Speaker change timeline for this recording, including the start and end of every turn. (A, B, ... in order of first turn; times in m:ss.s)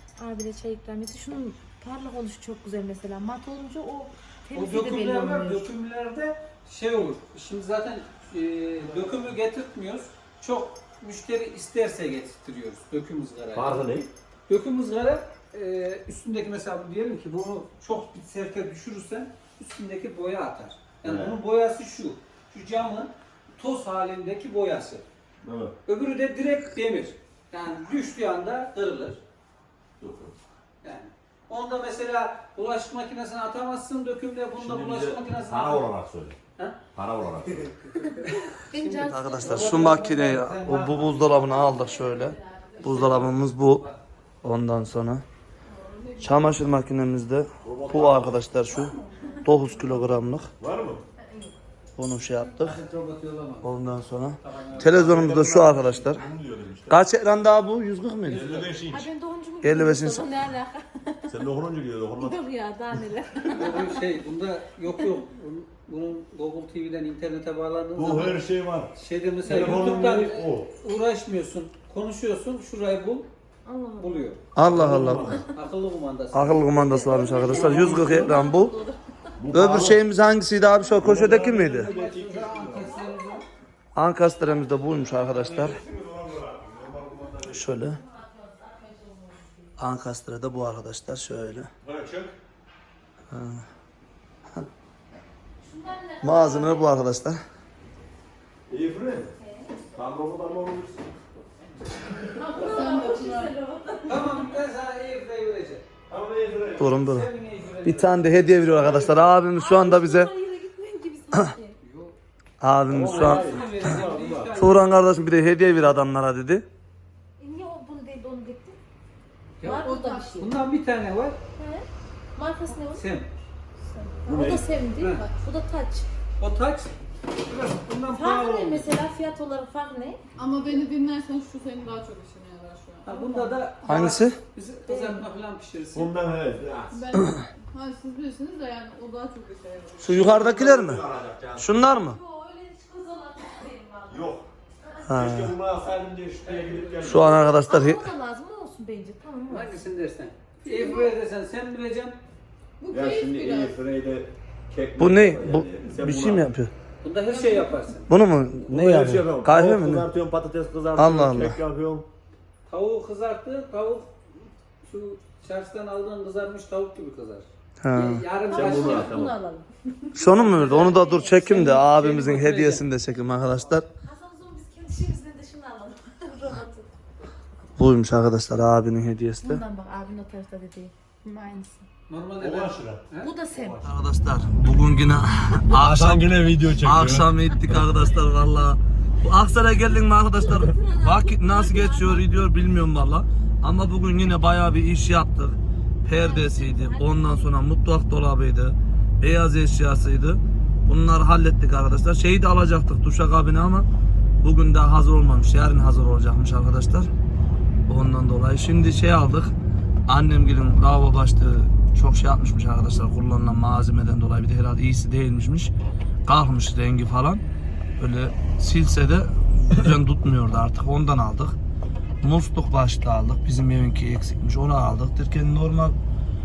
0:00.2-0:05.7 A
0:04.5-0:13.9 B
0:13.5-0:14.1 C
0:14.5-0:25.0 B
0:21.0-0:21.4 C
0:25.4-0:25.7 C
0:25.9-0:29.2 B
0:30.0-0:30.4 C
0:30.8-0:35.9 B
0:34.6-0:36.4 C
0:36.9-0:37.7 C
0:38.5-0:40.0 A
0:38.8-0:41.9 B
0:39.0-0:43.9 D
0:41.9-0:43.0 A
0:42.8-0:44.0 B
0:44.4-0:45.2 D
0:45.7-0:46.6 E
0:46.2-0:50.5 D
0:47.6-0:48.5 C
0:48.7-0:49.5 A
0:50.6-0:51.0 C
0:51.2-0:51.5 A
0:52.0-0:52.8 D
0:52.6-0:53.7 B
0:53.6-0:56.3 D
0:54.4-0:55.2 B
0:54.8-0:57.0 C
0:56.9-0:58.6 D
0:58.3-0:58.8 B
0:58.3-0:59.1 C
0:58.9-1:01.3 A
0:59.6-1:00.3 D
1:01.3-1:02.4 C
1:02.2-1:03.9 A
1:03.5-1:08.4 B
1:08.0-1:08.9 C
1:09.0-1:13.3 B
1:09.4-1:10.7 C
1:09.5-1:10.0 A
1:13.6-1:14.3 A
1:14.0-1:14.4 B
1:14.6-1:15.4 D
1:14.6-1:15.5 C
1:15.5-1:16.6 B
1:16.3-1:18.7 D
1:16.7-1:19.0 A
1:17.5-1:18.1 B
1:17.5-1:18.3 C
1:19.4-1:20.0 C
1:19.5-1:21.9 D
1:21.0-1:22.9 C
1:21.7-1:23.4 B
1:24.0-1:25.8 D
1:25.2-1:27.7 C
1:27.5-1:28.0 D
1:27.8-1:29.7 A
1:29.8-1:31.7 D
1:31.8-1:32.4 C
1:33.3-1:33.7 D
1:35.6-1:37.0 A
1:36.2-1:37.4 D
1:38.7-1:39.3 C
1:39.4-1:39.7 A
1:39.9-1:41.1 C
1:42.4-1:44.4 A
1:42.5-1:43.5 E
1:44.1-1:45.9 B
1:46.1-1:46.9 C
1:46.8-1:47.3 D
1:46.8-1:48.3 B
1:47.8-1:50.3 D
1:48.8-1:49.2 C
1:49.5-1:51.8 A
1:51.8-1:52.2 B
1:52.6-1:54.0 D
1:52.9-1:54.7 C
1:53.1-1:54.9 B
1:54.5-1:56.6 D
1:57.4-1:58.8 A
1:59.6-1:59.9 B
1:59.6-2:00.5 A
1:59.7-2:00.5 E
2:00.4-2:01.4 B
2:01.6-2:03.0 A
2:02.9-2:03.3 B
2:03.9-2:06.1 A
2:04.3-2:04.7 C
2:04.4-2:05.2 B
2:06.4-2:06.9 B
2:07.5-2:08.9 B
2:08.1-2:10.2 A
2:10.4-2:13.6 E
2:13.1-2:16.1 B
2:13.8-2:14.4 D
2:14.9-2:15.3 A
2:15.9-2:17.0 C
2:16.9-2:20.2 E
2:20.0-2:21.0 D
2:20.0-2:21.8 C
2:21.6-2:22.2 D
2:21.8-2:24.3 A
2:24.1-2:24.5 C
2:25.1-2:25.6 D
2:25.1-2:27.6 C
2:26.4-2:27.2 B
2:27.0-2:28.1 D
2:27.6-2:29.8 A
2:29.5-2:32.2 B
2:30.7-2:31.1 E
2:32.8-2:33.8 E
2:32.9-2:36.5 C
2:35.0-2:36.7 D
2:37.0-2:38.1 B
2:37.3-2:37.6 A
2:38.1-2:40.1 D
2:38.7-2:42.1 C
2:41.0-2:41.6 D
2:42.7-2:44.1 B
2:44.8-2:49.2 B
2:47.8-2:48.2 D
2:48.4-2:49.7 A
2:48.5-2:49.4 C
2:50.2-2:53.9 D
2:50.3-2:51.0 B
2:50.3-2:51.9 A
2:51.6-2:52.9 B
2:54.0-2:56.9 A
2:57.8-2:59.6 D
2:59.4-3:00.9 A
3:01.2-3:01.8 E
3:02.1-3:03.3 B
3:02.4-3:04.0 C
3:03.2-3:03.8 A
3:03.8-3:06.3 D
3:05.7-3:07.3 C
3:06.8-3:23.9 D
3:10.4-3:12.5 A
3:16.1-3:17.5 A
3:24.4-3:27.1 D
3:27.9-3:29.5 D
3:30.1-3:35.7 D
3:36.3-3:37.4 D
3:38.0-3:41.6 D
3:42.2-3:46.0 D